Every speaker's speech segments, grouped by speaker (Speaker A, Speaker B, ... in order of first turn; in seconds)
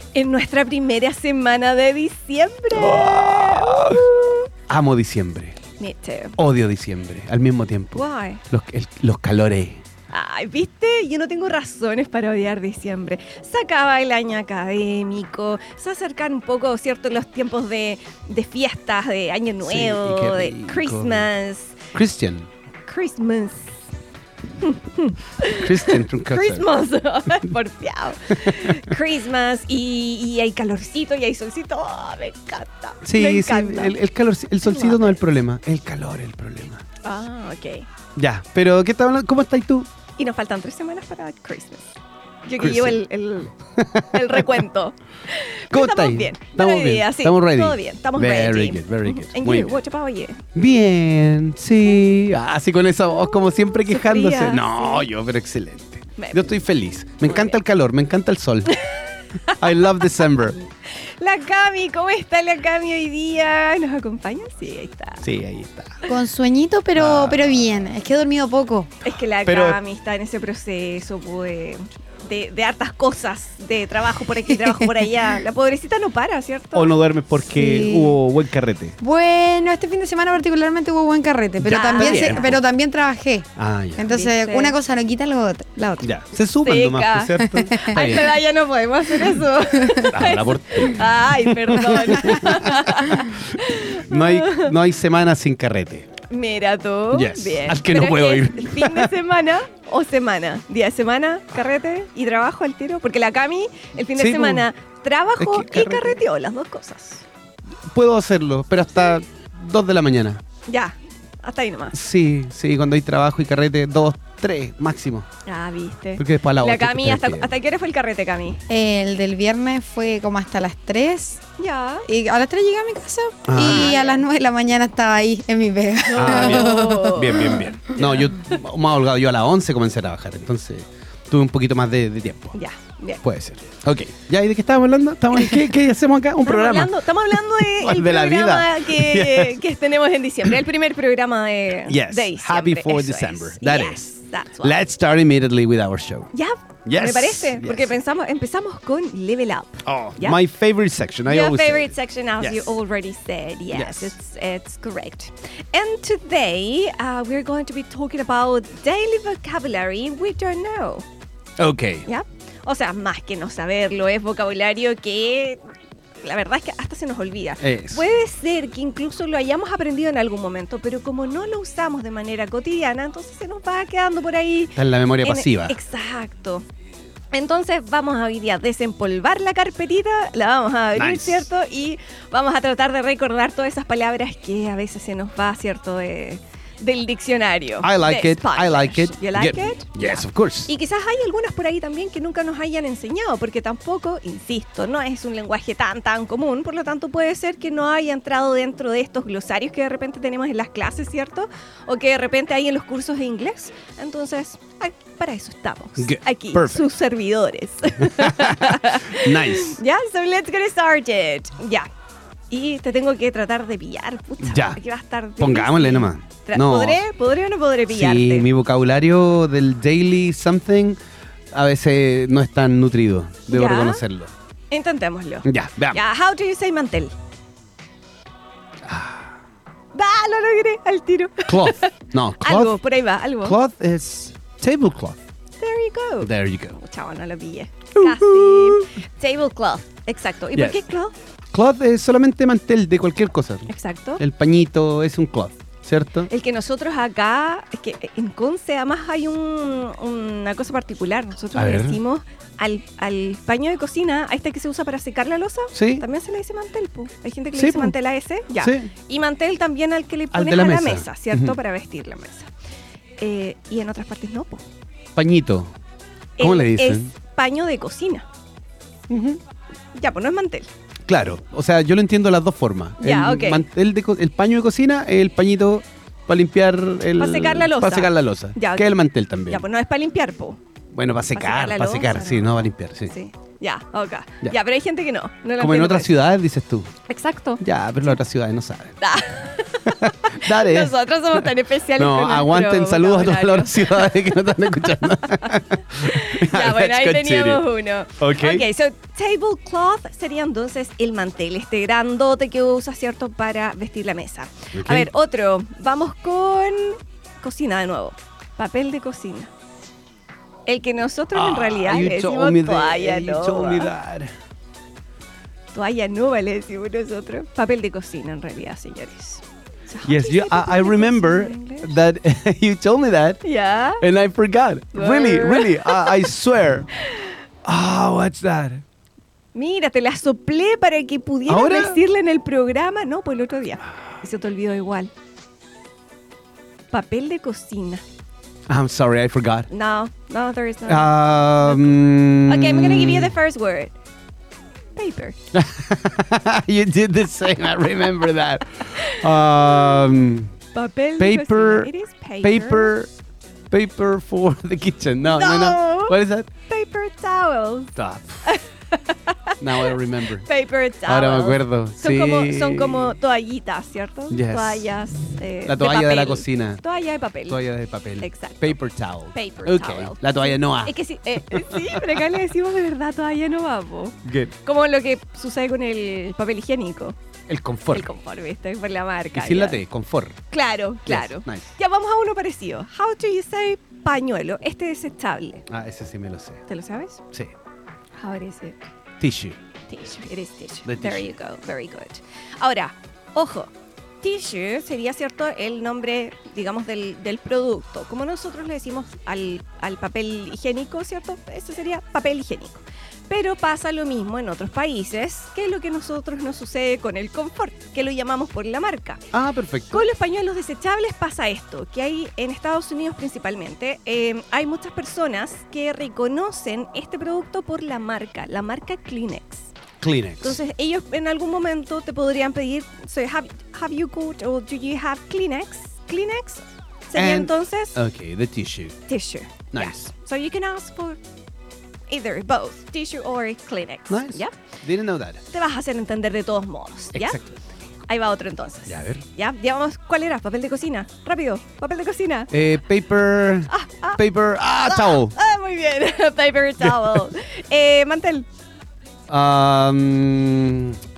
Speaker A: 0.1-4.5, 5.8-6.4, 7.9-8.4, 10.1-21.8, 22.9-23.8, 24.6-34.0, 34.6-35.2, 37.0-37.9, 40.2-41.9, 42.4-43.5, 44.1-50.4, 53.3-55.1, 56.2-56.5, 57.2-57.6, 58.7-65.2, 69.0-76.9, 81.6-82.5, 84.1-84.8, 86.6-94.7, 96.3-107.2, 110.7-112.0, 115.5-118.6, 121.6-122.1, 123.6-124.2, 126.1-128.3, 132.5-133.2, 136.4-144.8, 146.3-150.4, 151.2-161.1, 162.1-165.6, 166.2-176.7, 177.3-211.9, 212.5-218.4, 223.5-224.0, 224.7-227.1, 229.9-233.6, 235.6-241.1, 243.7-244.2, 246.3-262.5, 263.2-264.6, 266.4-268.3, 269.9-270.7, 273.0-273.6, 277.2-280.6, 281.3-286.2, 287.1-287.6, 289.0-294.5, 295.3-309.5, 310.6-313.9, 315.7-322.0, 323.4-324.0, 324.9-326.3, 329.5-335.1, 336.9-338.0, 339.7-343.9, 344.9-345.4, 348.8-350.1, 350.7-352.9, 355.3-367.6, 368.2-368.8, 369.3-377.1, 377.9-379.8, 380.5-385.6, 386.7-387.2, 388.2-388.8, 389.9-393.7, 394.2-409.2, 409.9-419.7, 420.4-428.0, 429.1-431.2, 432.1-434.6, 435.5-437.4, 438.1-442.5, 443.7-448.5
Speaker B: 2.7-4.1, 4.7-5.6, 6.4-9.8, 19.6-21.3, 21.9-22.5, 25.5-26.7, 28.3-28.9, 33.0-36.8, 38.1-39.9, 42.6-43.0, 43.7-44.6, 45.7-49.8, 50.5-58.8, 59.5-60.6, 65.2-66.0, 67.0-67.9, 69.4-69.8, 76.7-79.0, 81.6-82.6, 83.6-84.1, 86.0-88.4, 90.1-96.1, 97.1-99.1, 104.1-104.7, 105.4-106.2, 107.9-110.4, 111.9-115.3, 116.2-117.6, 123.5-124.0, 126.2-132.6, 133.2-139.6, 141.8-146.3, 146.8-147.9, 149.8-152.8, 153.7-154.1, 161.6-162.1, 167.6-168.0, 174.7-175.7, 180.9-181.5, 187.8-190.7, 206.0-206.9, 208.0-209.8, 214.4-214.8, 215.4-217.0, 217.9-221.0, 221.5-224.3, 225.4-226.0, 228.8-229.3, 231.4-232.8, 233.4-235.2, 236.2-236.8, 237.9-238.9, 240.5-240.8, 241.5-246.3, 251.5-252.0, 255.7-256.1, 257.5-257.9, 258.6-258.9, 260.3-261.6, 265.1-265.7, 266.4-267.1, 269.1-269.4, 271.1-279.6, 280.9-283.1, 285.6-286.9, 287.6-289.0, 289.8-298.6, 304.7-305.1, 311.3-314.3, 320.0-323.4, 324.0-326.9, 327.6-328.8, 331.5-332.0, 338.7-339.7, 340.9-343.3, 345.5-350.5, 351.2-353.1, 353.7-356.5, 357.9-358.5, 359.6-360.5, 361.1-363.1, 364.3-364.9, 365.6-366.8, 367.5-372.2, 374.2-374.5, 377.5-378.1, 379.3-380.4, 381.1-381.7, 385.7-386.6, 389.2-389.6, 390.8-391.3, 409.3-410.1, 420.0-420.6, 427.1-428.9, 429.7-430.1, 434.1-435.4, 437.1-437.6, 438.9-439.2, 442.5-445.3, 446.8-447.2, 449.3-451.0
Speaker C: 66.0-68.9, 77.5-78.2, 79.0-86.0, 87.4-88.0, 89.8-90.1, 118.7-121.4, 122.1-127.6